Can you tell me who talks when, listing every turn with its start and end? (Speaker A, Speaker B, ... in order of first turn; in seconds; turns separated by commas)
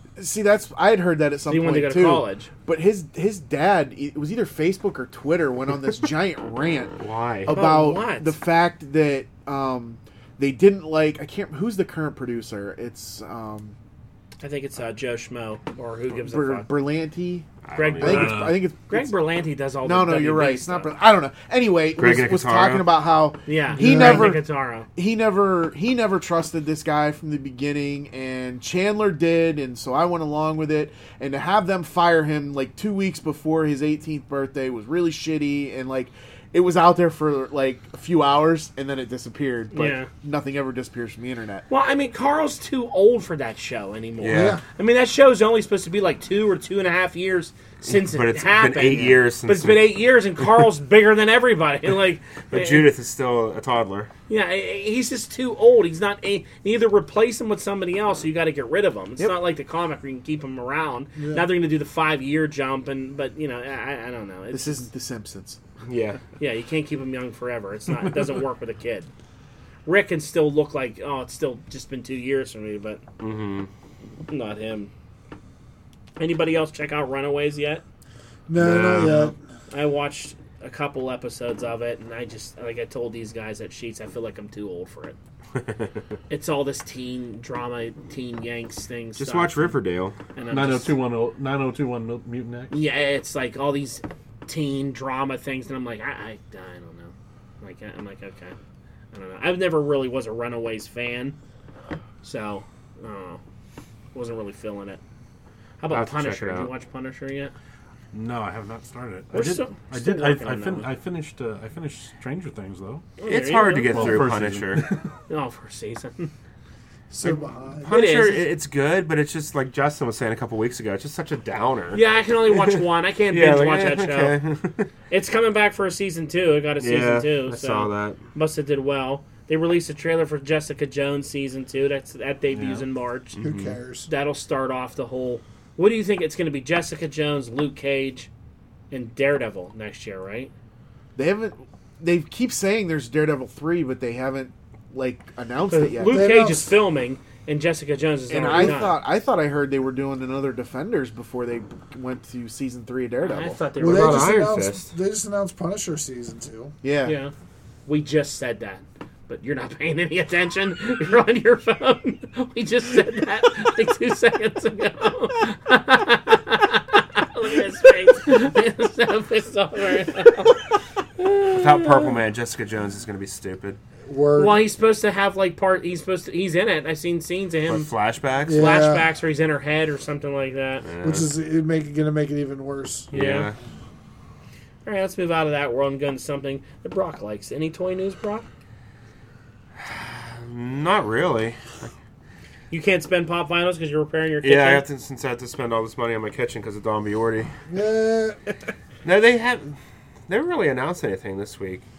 Speaker A: 0.2-13.7, Speaker B: 1.5-2.5, Speaker C: 7.0-7.5, Speaker B: 7.5-8.3, Speaker B: 14.4-16.7, Speaker A: 16.2-17.5, Speaker C: 17.6-18.4, Speaker B: 17.7-20.9, Speaker A: 18.0-19.1, Speaker D: 18.0-18.6, Speaker A: 19.8-41.6, Speaker C: 21.9-22.9, Speaker B: 23.4-24.9, Speaker E: 23.8-24.4, Speaker B: 39.7-40.1, Speaker B: 41.7-52.9, Speaker C: 44.2-44.6, Speaker E: 44.3-44.6, Speaker C: 47.8-49.9, Speaker C: 52.5-54.1, Speaker B: 54.3-64.9, Speaker E: 61.1-61.5, Speaker A: 64.5-65.6, Speaker C: 65.8-66.2, Speaker B: 66.4-69.1, Speaker B: 69.8-73.0, Speaker C: 73.2-73.7, Speaker B: 74.3-74.9, Speaker B: 76.2-77.8, Speaker E: 78.5-79.3, Speaker C: 78.6-79.3, Speaker B: 79.7-85.2, Speaker C: 85.6-85.9, Speaker B: 86.3-89.8, Speaker C: 89.2-90.2, Speaker B: 90.3-91.0, Speaker D: 90.5-92.7, Speaker B: 92.7-98.5, Speaker B: 99.1-101.3, Speaker B: 102.2-103.4, Speaker B: 104.1-105.0, Speaker B: 105.8-107.5, Speaker C: 105.9-106.7, Speaker D: 108.1-113.1, Speaker B: 109.3-110.9, Speaker B: 113.2-114.3, Speaker C: 113.2-114.9, Speaker D: 113.9-115.1, Speaker B: 115.3-116.3, Speaker C: 117.1-122.0, Speaker E: 117.2-118.0, Speaker B: 117.9-118.4, Speaker B: 121.9-124.4, Speaker C: 123.3-124.9, Speaker B: 125.1-133.4, Speaker C: 126.8-128.2, Speaker D: 132.5-132.8, Speaker C: 133.4-133.8, Speaker E: 133.4-134.1, Speaker B: 134.1-138.3, Speaker B: 138.9-140.5, Speaker A: 141.2-146.3, Speaker B: 145.7-149.0, Speaker E: 146.1-146.8, Speaker A: 148.3-153.6, Speaker B: 153.2-154.5, Speaker E: 153.8-156.7, Speaker C: 153.8-154.9, Speaker A: 156.8-157.2, Speaker B: 157.0-157.3, Speaker B: 157.9-170.7, Speaker B: 171.2-172.2, Speaker C: 171.5-173.8, Speaker E: 174.1-174.6, Speaker B: 174.3-177.9, Speaker C: 177.7-178.8, Speaker E: 178.4-179.1, Speaker B: 178.5-180.9, Speaker C: 180.8-181.3, Speaker E: 181.0-183.1, Speaker C: 183.1-183.6, Speaker B: 183.1-183.5, Speaker B: 184.8-188.4, Speaker C: 189.8-191.9, Speaker B: 192.7-194.8, Speaker C: 194.4-197.6, Speaker E: 197.7-198.4, Speaker C: 199.0-201.8